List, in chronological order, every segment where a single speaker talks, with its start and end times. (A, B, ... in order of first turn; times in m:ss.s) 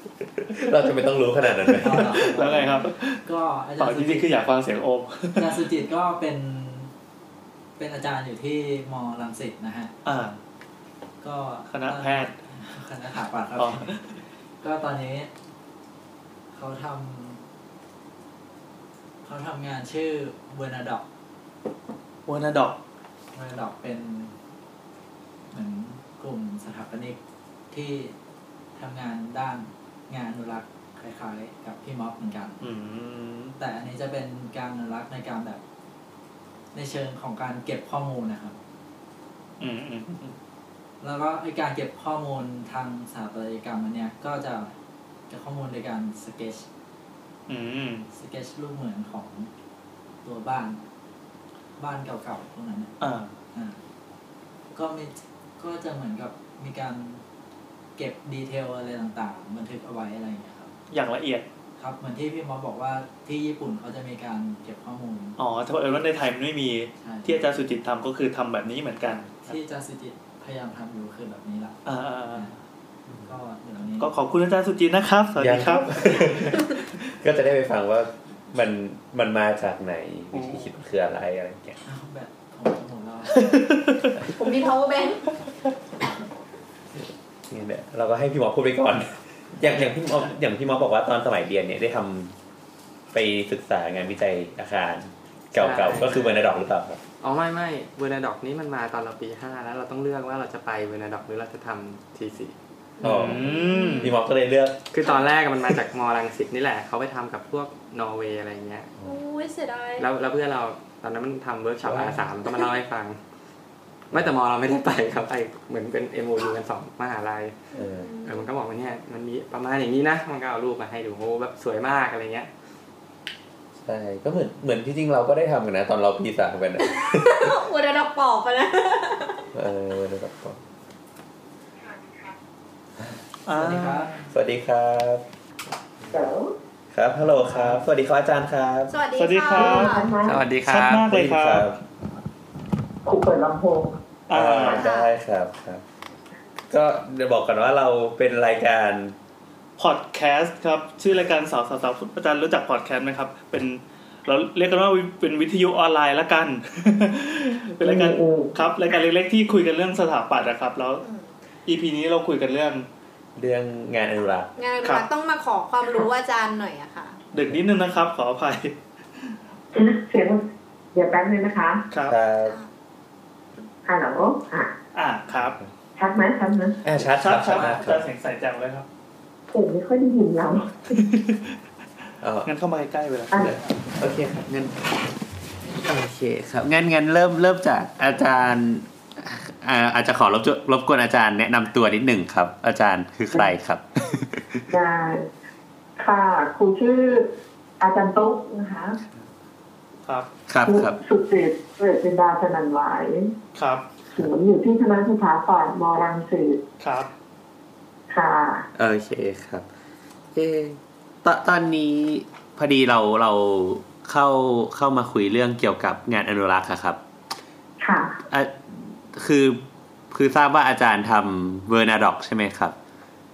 0:00.4-0:02.5 A
0:01.8-0:04.5 B
0:01.9-0:03.2 C
0:03.8-0:05.6 C
0:05.4-0:06.9 B
0:07.8-0:09.9 B
0:10.0-0:10.4 C
0:11.2-0:13.9 B
0:11.7-0:12.3 C
0:13.6-0:14.2 C
0:14.6-0:15.3 B
0:16.5-0:17.4 B
0:19.2-0:21.0 B
0:22.2-0:22.8 C
0:23.3-0:24.3 B
0:25.5-0:27.2 B
0:27.7-0:28.1 B
0:28.8-0:32.6 B
0:32.6-0:33.6 C
0:33.6-0:35.6 B
0:36.7-0:38.6 B
0:39.6-0:40.4 C
0:41.0-0:44.7 B
0:45.3-0:46.6 B
0:47.5-0:48.1 C
0:48.1-0:49.5 B
0:50.2-0:50.8 B
0:51.8-0:52.9 B
0:53.0-0:53.3 C
0:54.7-0:57.2 B
0:58.0-1:00.7 B
1:00.9-1:01.4 C
1:01.8-1:05.4 B
1:05.4-1:09.6 C
1:07.0-1:07.5 B
1:09.4-1:11.8 B
1:11.9-1:12.5 C
1:12.3-1:12.6 B
1:13.2-1:14.1 B
1:14.0-1:16.8 C
1:15.4-1:21.8 A
1:20.3-1:20.7 C
1:21.8-1:23.7 B
1:23.4-1:24.1 C
1:24.3-1:25.2 D
1:27.5-1:32.3 A
1:33.1-1:37.0 A
1:35.6-1:36.3 E
1:37.2-1:42.6 E
1:43.0-1:44.1 C
1:43.0-1:44.8 A
1:43.4-1:44.1 D
1:44.9-1:48.9 E
1:49.0-1:50.1 D
1:50.0-1:53.2 E
1:51.8-1:52.3 A
1:54.1-1:57.6 E
1:57.7-1:58.1 A
1:57.7-1:58.4 D
1:58.2-2:02.5 E
2:03.8-2:07.6 A
2:06.8-2:09.4 D
2:09.5-2:10.6 A
2:13.4-2:14.1 C
2:13.5-2:14.3 B
2:14.3-2:15.2 A
2:16.1-2:16.5 F
2:16.9-2:18.9 A
2:17.5-2:17.8 C
2:18.9-2:20.1 D
2:19.2-2:20.0 C
2:19.5-2:20.4 F
2:20.2-2:21.1 E
2:20.6-2:21.7 C
2:21.1-2:21.8 A
2:23.0-2:24.0 F
2:24.3-2:24.9 C
2:24.3-2:25.8 A
2:24.7-2:25.1 D
2:26.7-2:29.1 A
2:29.8-2:41.0 C
2:37.8-2:38.6 F
2:41.0-2:41.3 D
2:41.6-2:42.9 C
2:43.4-2:44.5 A
2:44.6-2:47.2 D
2:47.3-2:49.3 C
2:49.7-2:51.9 F
2:51.9-2:52.2 C
2:52.1-2:52.6 A
2:53.9-2:54.7 F
2:54.9-2:55.6 C
2:56.0-2:56.8 F
2:56.8-2:58.1 A
2:57.0-2:58.9 C
2:59.5-3:01.0 F
3:01.0-3:01.5 C
3:02.2-3:02.5 A
3:02.4-3:03.6 C
3:03.4-3:05.0 A
3:05.8-3:14.6 A
3:14.7-3:15.3 F
3:16.0-3:17.3 F
3:17.8-3:19.0 F
3:20.5-3:21.0 A
3:20.6-3:23.4 F
3:23.6-3:23.8 C
3:24.1-3:26.6 F
3:26.8-3:27.1 C
3:28.1-3:28.7 F
3:28.7-3:29.7 A
3:30.3-3:37.0 A
3:37.8-3:38.2 F
3:38.3-3:42.7 A